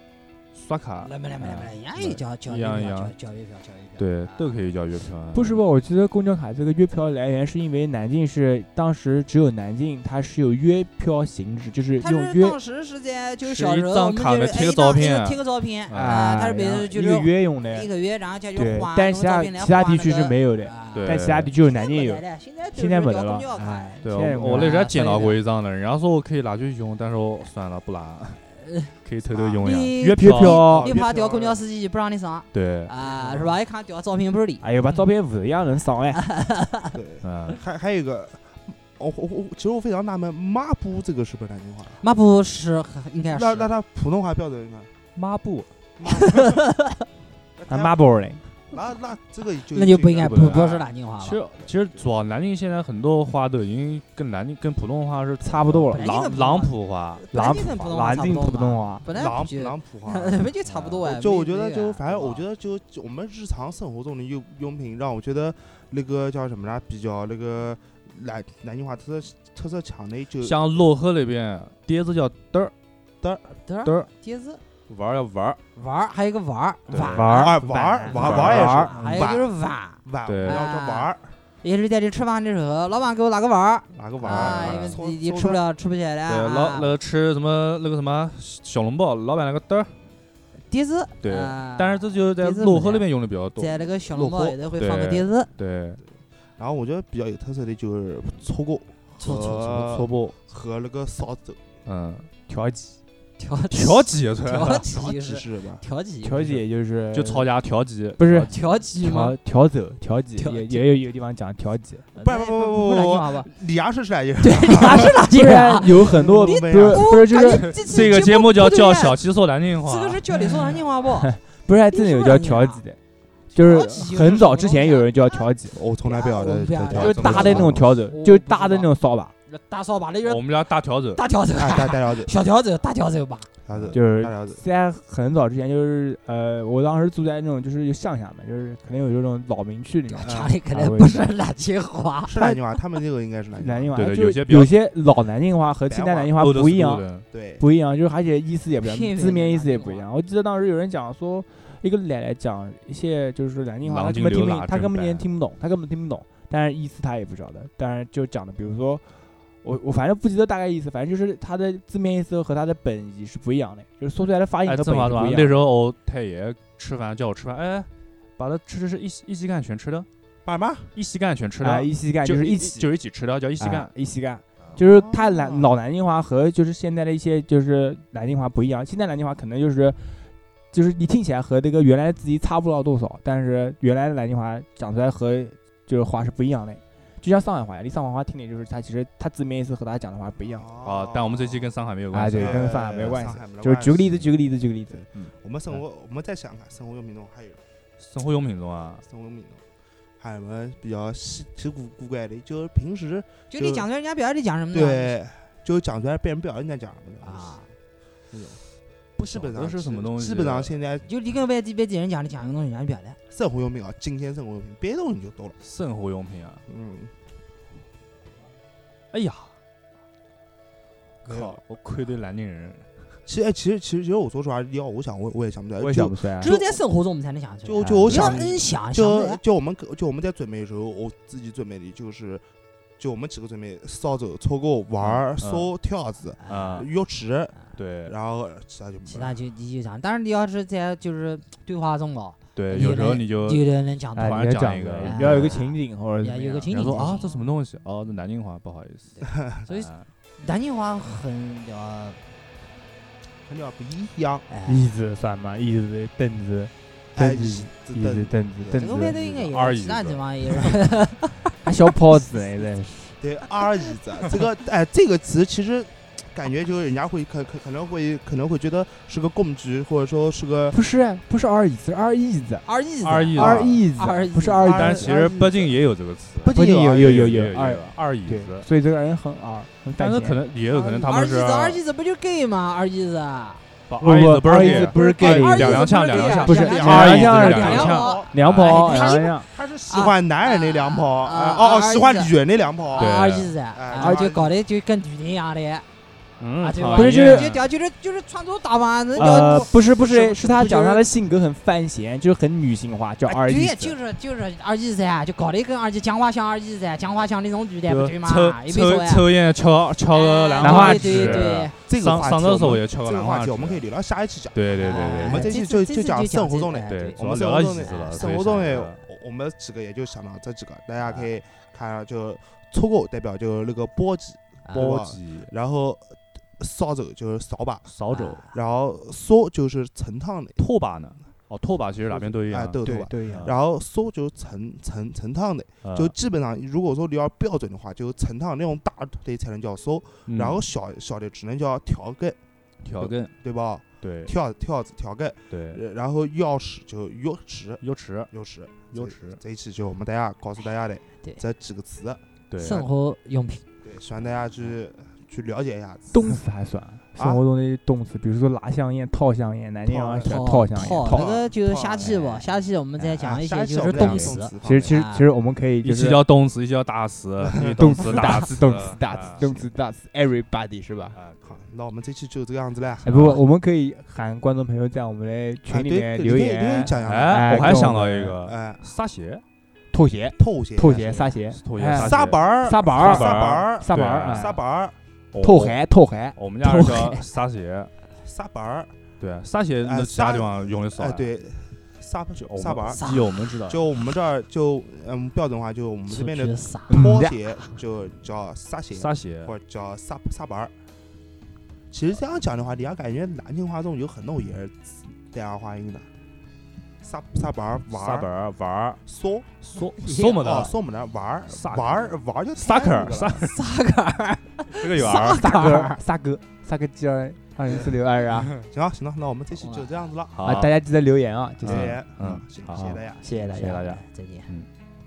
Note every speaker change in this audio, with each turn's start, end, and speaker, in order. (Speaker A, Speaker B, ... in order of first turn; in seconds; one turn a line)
Speaker A: 0.6-3.1
Speaker B: 1.0-4.5
Speaker A: 4.0-5.6
Speaker C: 5.3-12.6
Speaker B: 12.0-24.0
Speaker A: 13.4-16.3
Speaker C: 15.9-17.9
Speaker C: 18.6-25.0
Speaker A: 20.9-21.5
Speaker A: 24.0-28.5
Speaker B: 24.5-25.4
Speaker B: 28.6-28.9
Speaker A: 29.0-30.7
Speaker D: 29.3-29.7
Speaker B: 29.6-34.7
Speaker C: 30.2-30.9
Speaker D: 30.7-31.6
Speaker A: 32.5-32.9
Speaker D: 33.0-33.5
Speaker C: 34.6-36.2
Speaker B: 36.2-36.9
Speaker D: 36.9-42.0
Speaker A: 37.2-37.6
Speaker B: 42.0-43.7
Speaker D: 43.3-44.9
Speaker A: 45.1-45.7
Speaker D: 46.0-46.6
Speaker B: 46.1-46.9
Speaker D: 47.6-48.0
Speaker C: 47.7-48.4
Speaker D: 48.7-50.9
Speaker B: 49.7-51.5
Speaker A: 50.2-57.2
Speaker C: 55.4-56.0
Speaker B: 55.9-62.4
Speaker C: 57.3-59.1
Speaker D: 59.1-60.5
Speaker A: 60.7-61.0
Speaker D: 61.0-70.8
Speaker A: 70.4-72.7
Speaker D: 73.2-73.5
Speaker B: 73.7-74.6
Speaker A: 73.8-74.1
Speaker A: 74.9-75.6
Speaker B: 75.8-77.5
Speaker A: 76.9-77.3
Speaker C: 77.0-79.0
Speaker D: 77.3-81.3
Speaker A: 78.2-78.7
Speaker B: 78.7-81.1
Speaker A: 80.3-80.6
Speaker B: 81.6-86.9
Speaker D: 83.9-85.6
Speaker A: 84.2-85.0
Speaker A: 86.3-90.0
Speaker B: 90.7-95.5
Speaker A: 91.2-93.8
Speaker D: 94.1-94.6
Speaker A: 94.8-96.0
Speaker D: 96.6-101.6
Speaker B: 99.2-99.7
Speaker A: 99.5-100.3
Speaker A: 101.9-102.3
Speaker C: 102.5-103.0
Speaker B: 103.4-106.6
Speaker A: 103.7-104.9
Speaker D: 104.9-105.8
Speaker C: 106.2-107.5
Speaker A: 107.1-109.4
Speaker C: 108.2-108.5
Speaker B: 108.5-109.4
Speaker C: 109.2-112.0
Speaker B: 110.4-110.8
Speaker B: 112.1-113.5
Speaker D: 112.2-115.2
Speaker B: 114.4-119.2
Speaker C: 115.2-117.7
Speaker D: 116.0-117.2
Speaker A: 117.5-120.2
Speaker B: 119.8-121.3
Speaker C: 121.2-123.0
Speaker B: 121.9-122.8
Speaker B: 123.5-125.1
Speaker C: 123.5-125.8
Speaker D: 125.7-128.0
Speaker B: 126.0-127.5
Speaker C: 126.9-129.3
Speaker A: 126.9-127.8
Speaker B: 128.1-128.9
Speaker B: 129.5-130.6
Speaker A: 130.2-131.2
Speaker B: 131.1-133.5
Speaker D: 131.5-132.3
Speaker D: 133.7-134.6
Speaker A: 133.7-134.0
Speaker C: 133.9-141.3
Speaker B: 140.1-142.4
Speaker D: 140.2-140.6
Speaker D: 142.2-144.0
Speaker C: 143.6-147.1
Speaker A: 143.9-144.8
Speaker D: 145.9-146.4
Speaker A: 146.3-147.2
Speaker D: 147.3-147.7
Speaker C: 147.6-165.7
Speaker B: 148.8-150.1
Speaker A: 153.8-155.3
Speaker A: 164.6-170.1
Speaker D: 170.4-170.9
Speaker A: 170.9-173.9
Speaker C: 171.6-172.9
Speaker C: 173.6-190.7
Speaker D: 174.8-175.7
Speaker D: 190.5-191.7
Speaker A: 190.8-192.7
Speaker C: 192.1-195.3
Speaker D: 192.3-194.3
Speaker D: 194.9-197.6
Speaker A: 198.0-199.0
Speaker D: 199.1-199.6
Speaker D: 200.2-203.9
Speaker B: 203.5-205.2
Speaker D: 204.7-207.6
Speaker B: 207.2-207.7
Speaker D: 208.3-208.6
Speaker A: 209.2-210.8
Speaker D: 209.2-211.1
Speaker B: 211.0-213.2
Speaker D: 213.3-215.6
Speaker A: 215.6-216.6
Speaker D: 216.7-217.1
Speaker A: 219.1-219.5
Speaker A: 221.2-222.9
Speaker D: 221.3-221.6
Speaker D: 223.3-226.8
Speaker C: 225.8-226.6
Speaker B: 226.4-229.4
Speaker D: 227.7-232.4
Speaker C: 227.8-228.4
Speaker D: 233.0-239.4
Speaker A: 235.0-235.7
Speaker B: 236.4-236.9
Speaker A: 236.5-236.9
Speaker A: 237.8-238.1
Speaker B: 239.1-247.5
Speaker A: 242.6-245.6
Speaker C: 244.2-247.2
Speaker A: 246.7-250.1
Speaker B: 249.2-252.2
Speaker D: 249.3-249.7
Speaker D: 253.5-254.5
Speaker B: 254.5-254.9
Speaker C: 254.7-259.2
Speaker D: 257.1-259.5
Speaker B: 258.8-261.5
Speaker A: 259.5-260.7
Speaker C: 261.6-263.2
Speaker D: 263.2-270.8
Speaker C: 270.7-272.6
Speaker B: 272.7-275.1
Speaker A: 273.0-273.9
Speaker C: 273.4-275.1
Speaker D: 274.6-275.7
Speaker A: 274.6-278.7
Speaker C: 276.4-280.4
Speaker D: 276.5-277.1
Speaker A: 280.0-281.8
Speaker B: 280.7-283.6
Speaker A: 283.9-288.9
Speaker C: 284.0-289.5
Speaker B: 284.9-292.3
Speaker D: 286.6-293.2
Speaker B: 293.0-295.9
Speaker A: 293.0-293.6
Speaker D: 293.7-294.5
Speaker C: 294.0-294.3
Speaker C: 296.4-297.6
Speaker B: 296.6-301.1
Speaker A: 296.8-297.6
Speaker D: 299.2-299.9
Speaker C: 299.2-304.0
Speaker B: 303.3-309.3
Speaker A: 307.9-313.8
Speaker B: 310.1-311.8
Speaker C: 310.6-311.5
Speaker D: 311.8-327.9
Speaker A: 314.5-315.6
Speaker B: 314.8-317.2
Speaker A: 316.9-319.1
Speaker B: 317.8-318.7
Speaker A: 324.7-325.5
Speaker A: 327.9-328.4
Speaker B: 328.1-328.6
Speaker D: 328.5-330.6
Speaker A: 330.6-333.6
Speaker D: 332.1-342.4
Speaker C: 332.8-333.5
Speaker A: 335.8-336.1
Speaker A: 340.3-340.6
Speaker A: 342.8-343.3
Speaker D: 343.0-352.2
Speaker A: 344.0-344.3
Speaker A: 345.5-345.8
Speaker A: 347.8-348.3
Speaker A: 348.9-349.4
Speaker A: 352.5-352.9
Speaker B: 352.6-353.6
Speaker D: 353.8-356.4
Speaker C: 356.1-361.3
Speaker D: 357.2-357.4
Speaker D: 359.9-362.3
Speaker B: 360.2-365.3
Speaker D: 363.0-365.0
Speaker C: 363.9-366.2
Speaker A: 365.8-369.5
Speaker D: 367.6-367.8
Speaker C: 367.7-371.2
Speaker A: 371.1-371.7
Speaker D: 371.4-373.3
Speaker C: 373.0-378.4
Speaker A: 373.1-373.4
Speaker D: 375.7-378.8
Speaker A: 377.0-379.4
Speaker C: 379.9-384.6
Speaker D: 380.4-381.4
Speaker A: 381.5-384.6
Speaker D: 381.9-385.0
Speaker A: 385.3-385.8
Speaker C: 385.4-387.2
Speaker A: 386.4-387.9
Speaker D: 388.2-388.9
Speaker A: 389.2-391.3
Speaker D: 389.8-393.0
Speaker A: 392.4-393.8
Speaker B: 392.9-393.4
Speaker D: 393.7-400.7
Speaker B: 396.1-397.1
Speaker C: 396.9-397.4
Speaker A: 398.9-399.5
Speaker D: 401.9-406.1
Speaker D: 407.0-408.3
Speaker A: 407.9-409.0
Speaker D: 409.1-409.5
Speaker A: 409.6-410.7
Speaker B: 410.0-410.3
Speaker D: 410.1-413.4
Speaker A: 411.5-413.5
Speaker B: 413.4-416.0
Speaker A: 414.7-415.5
Speaker C: 415.2-418.5
Speaker D: 418.6-420.4
Speaker B: 419.6-419.9
Speaker A: 420.3-420.8
Speaker C: 420.4-422.0
Speaker A: 421.6-424.7
Speaker D: 421.6-423.3
Speaker C: 423.2-424.0
Speaker B: 423.3-424.5